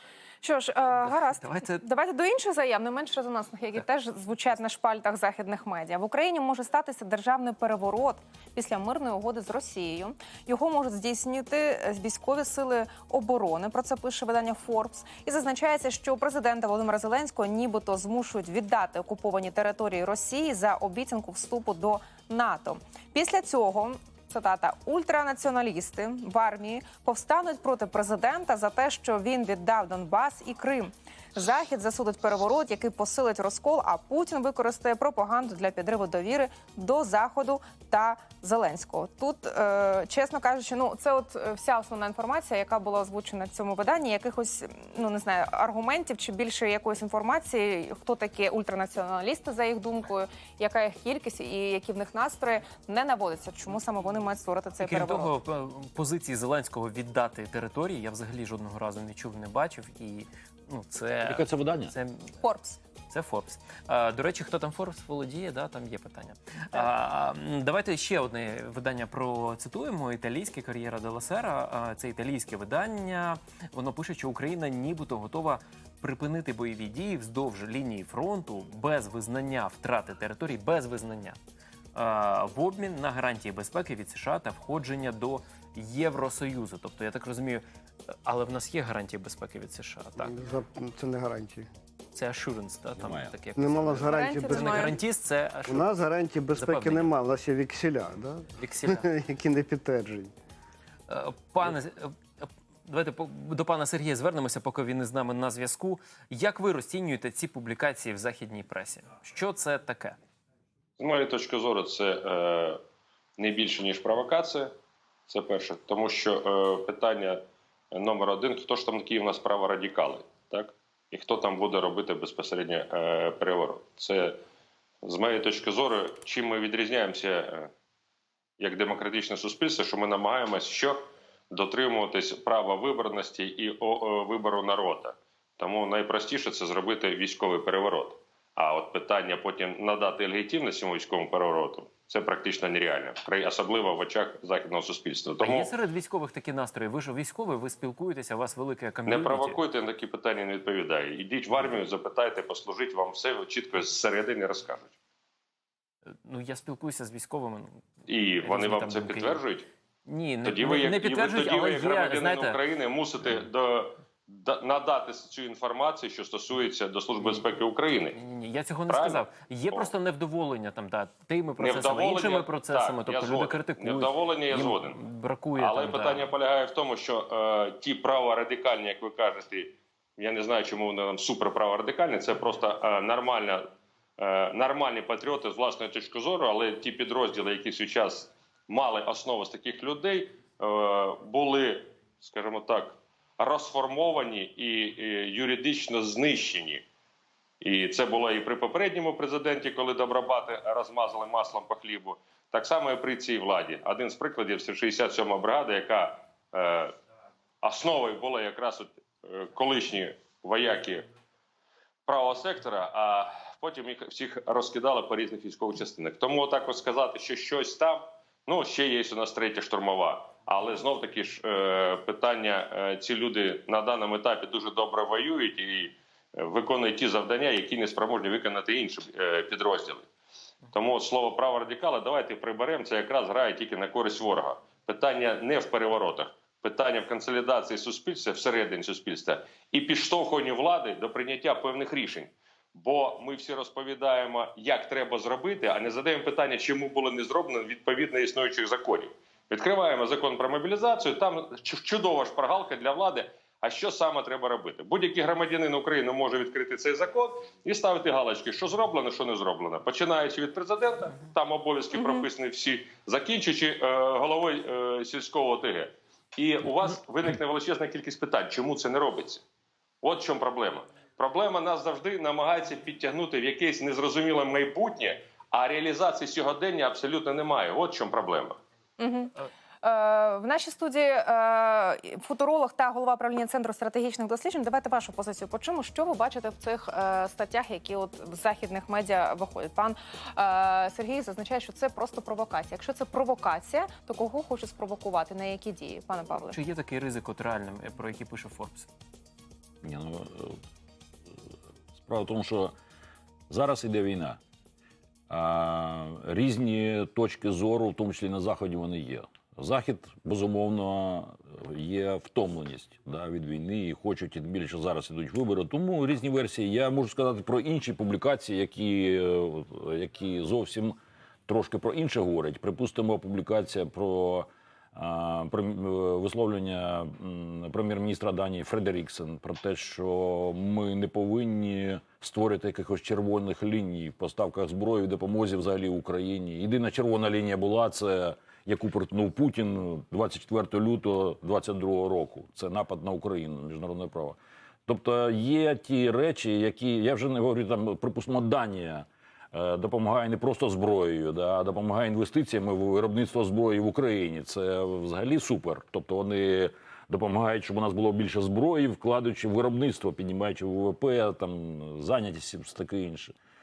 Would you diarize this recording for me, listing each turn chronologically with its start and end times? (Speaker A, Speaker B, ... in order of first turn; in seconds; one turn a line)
Speaker A: 0.4-55.3
Speaker B: 1.3-1.8
Speaker B: 54.8-62.3
Speaker C: 61.2-61.9
Speaker A: 62.4-62.8
Speaker B: 63.1-81.4
Speaker B: 82.0-90.3
Speaker D: 90.2-91.7
Speaker B: 92.1-95.9
Speaker C: 93.0-93.3
Speaker D: 93.6-95.0
Speaker A: 94.1-94.9
Speaker D: 95.7-100.3
Speaker B: 96.5-97.1
Speaker B: 98.6-99.1
Speaker B: 101.1-110.2
Speaker E: 111.0-112.8
Speaker E: 113.4-114.7
Speaker E: 115.3-117.4
Speaker E: 117.9-124.4
Speaker E: 125.0-127.7
Speaker E: 128.6-145.7
Speaker B: 145.4-149.6
Speaker E: 149.1-154.9
Speaker B: 156.1-157.8
Speaker E: 158.1-159.7
Speaker B: 158.4-159.4
Speaker B: 160.1-162.6
Speaker E: 160.4-168.2
Speaker B: 168.1-176.3
Speaker E: 168.9-169.9
Speaker E: 171.6-175.0
Speaker E: 175.6-183.6
Speaker E: 184.2-196.8
Speaker E: 197.6-206.9
Speaker E: 207.6-211.1
Speaker E: 212.1-230.1
Speaker E: 230.7-269.4
Speaker E: 270.0-278.6
Speaker A: 279.0-296.6
Speaker B: 296.5-298.9
Speaker C: 299.8-300.6
Speaker C: 302.0-302.7
Speaker C: 303.5-304.4
Speaker C: 305.3-363.4